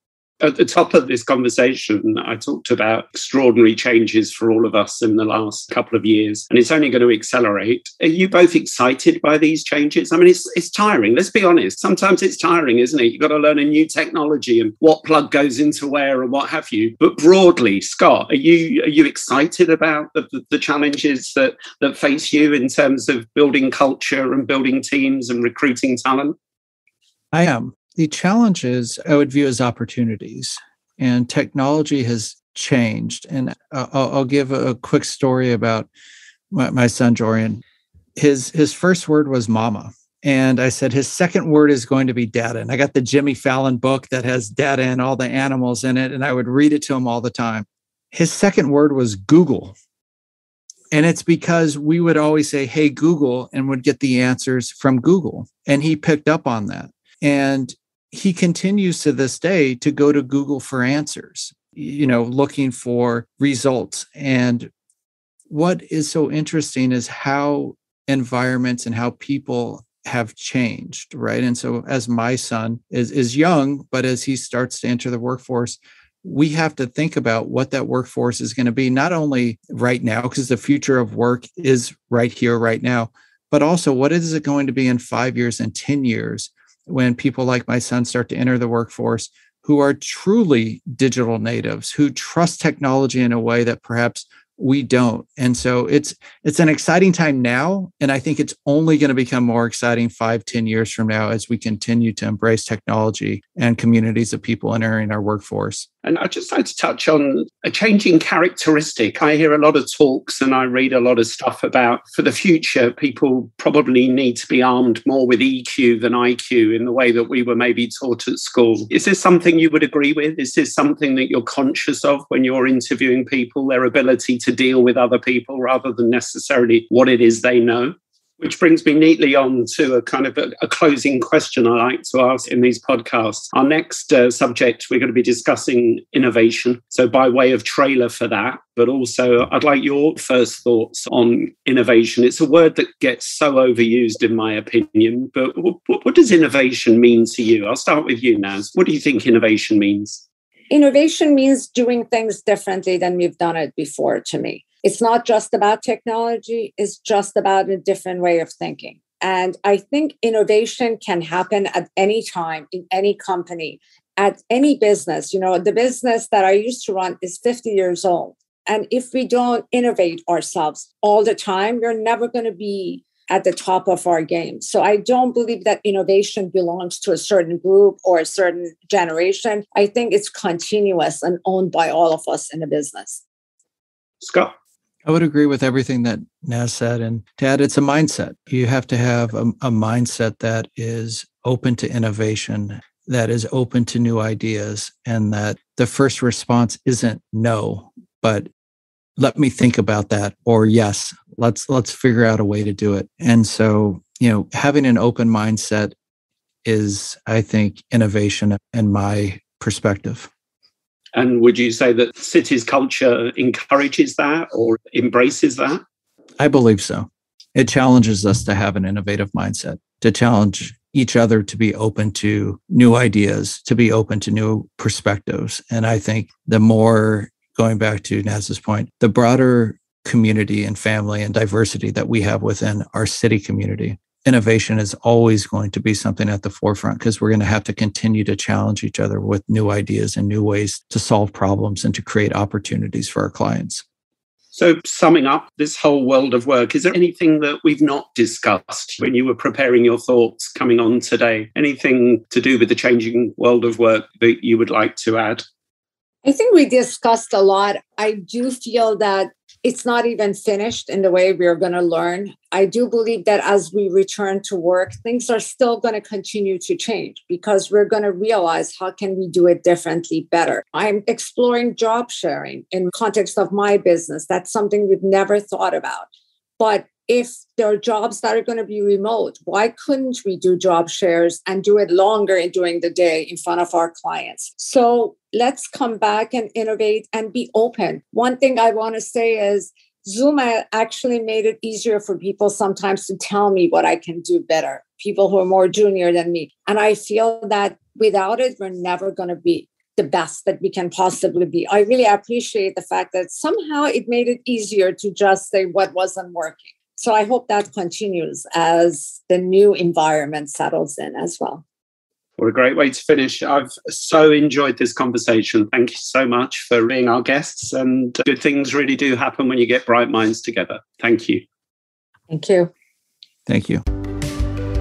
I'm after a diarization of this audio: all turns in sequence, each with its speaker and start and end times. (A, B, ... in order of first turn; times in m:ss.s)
0:00.4-0:26.3 A
0:27.3-0:35.9 B
0:36.5-0:37.6 B
0:38.2-0:49.8 B
0:50.9-1:04.7 B
1:05.5-1:45.8 B
1:46.0-2:30.2 A
2:30.7-3:03.2 C
3:04.2-3:04.5 A
3:05.0-3:18.5 B
3:19.2-3:25.9 B
3:26.6-3:30.3 B
3:31.1-3:35.8 A
3:36.4-4:03.8 B
4:04.5-4:15.4 A
4:16.2-4:36.1 C
4:36.6-5:11.6 C
5:12.4-5:21.4 A
5:22.3-5:22.7 C
5:23.5-5:23.8 B